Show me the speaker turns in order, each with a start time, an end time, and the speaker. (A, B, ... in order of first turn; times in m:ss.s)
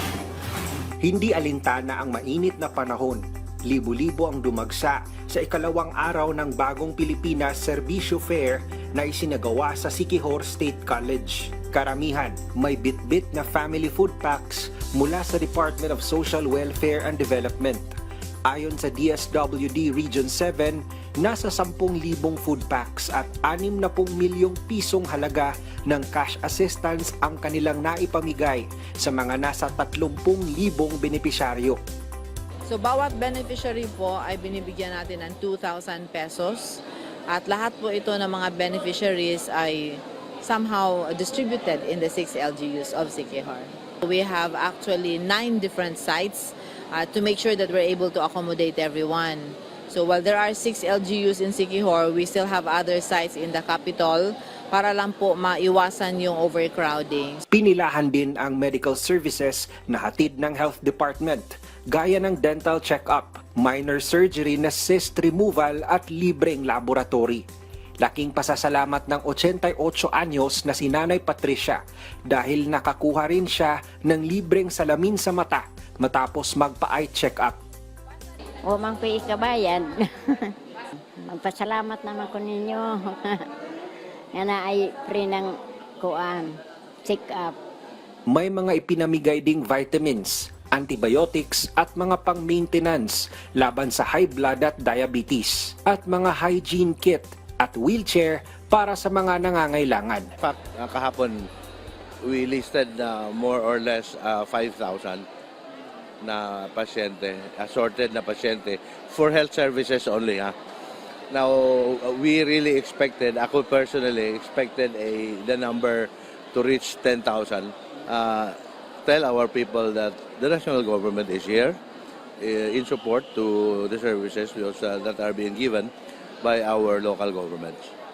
0:01.0-0:31.8 A
0:32.7-0:57.4 B
0:57.5-1:07.4 A
1:08.0-1:17.6 A
1:18.6-1:20.5 C
1:21.2-1:23.5 C
1:24.3-1:27.6 C
1:28.3-1:40.3 A
1:40.4-1:41.5 D
1:42.2-1:45.3 D
1:46.2-1:50.6 D
1:51.3-2:01.8 D
2:02.4-2:05.9 D
2:06.4-2:07.9 D